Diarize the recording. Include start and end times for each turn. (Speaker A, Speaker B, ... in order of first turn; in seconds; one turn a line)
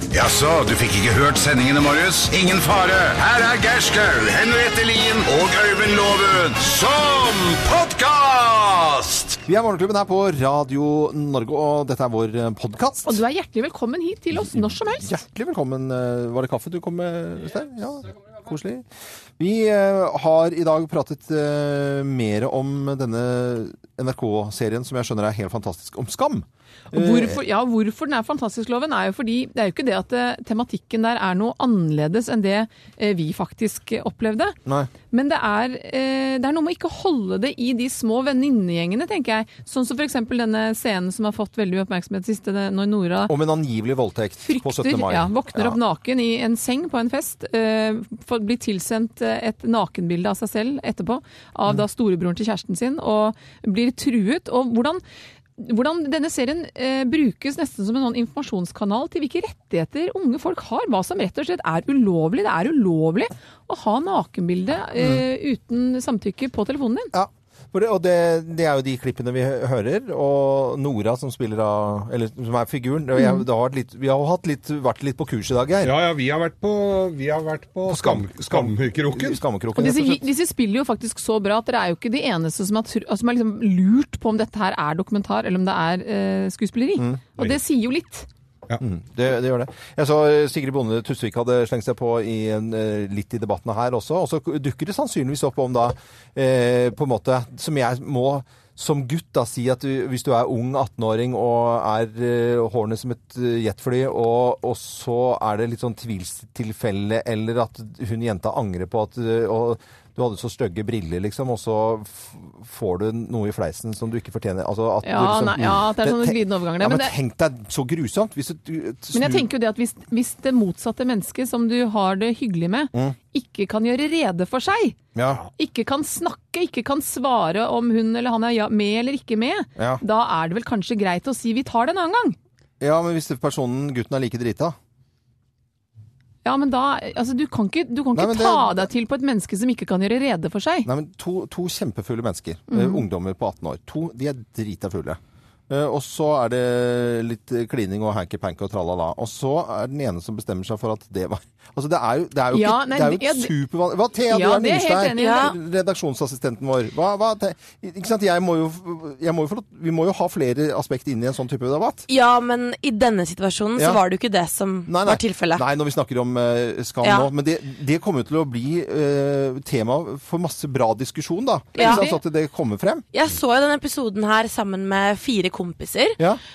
Speaker A: 0.1-9.4
Speaker B: 9.4-13.2
Speaker C: 13.0-15.1
Speaker B: 14.3-18.9
Speaker B: 19.4-27.4
Speaker C: 26.9-34.6
Speaker C: 35.1-43.3
Speaker B: 43.3-45.8
Speaker C: 44.4-55.0
Speaker C: 55.6-67.1
Speaker B: 65.0-65.2
Speaker B: 67.1-75.9
Speaker C: 73.2-73.4
Speaker D: 75.8-79.4
Speaker B: 77.9-80.2
Speaker C: 79.8-88.3
Speaker B: 87.0-87.2
Speaker B: 88.8-119.5
Speaker C: 115.0-117.1
Speaker C: 119.1-125.0
Speaker B: 125.1-125.4
Speaker C: 125.6-132.3
Speaker B: 129.8-130.0
Speaker B: 132.8-134.7
Speaker C: 136.4-140.9
Speaker B: 138.1-138.9
Speaker B: 140.8-162.1
Speaker C: 142.7-143.0
Speaker C: 152.5-153.5
Speaker C: 154.3-155.5
Speaker E: 155.2-155.6
Speaker E: 162.1-165.6
Speaker B: 164.9-173.0
Speaker E: 167.0-167.3
Speaker E: 171.8-172.0
Speaker C: 171.8-172.2
Speaker E: 173.1-176.2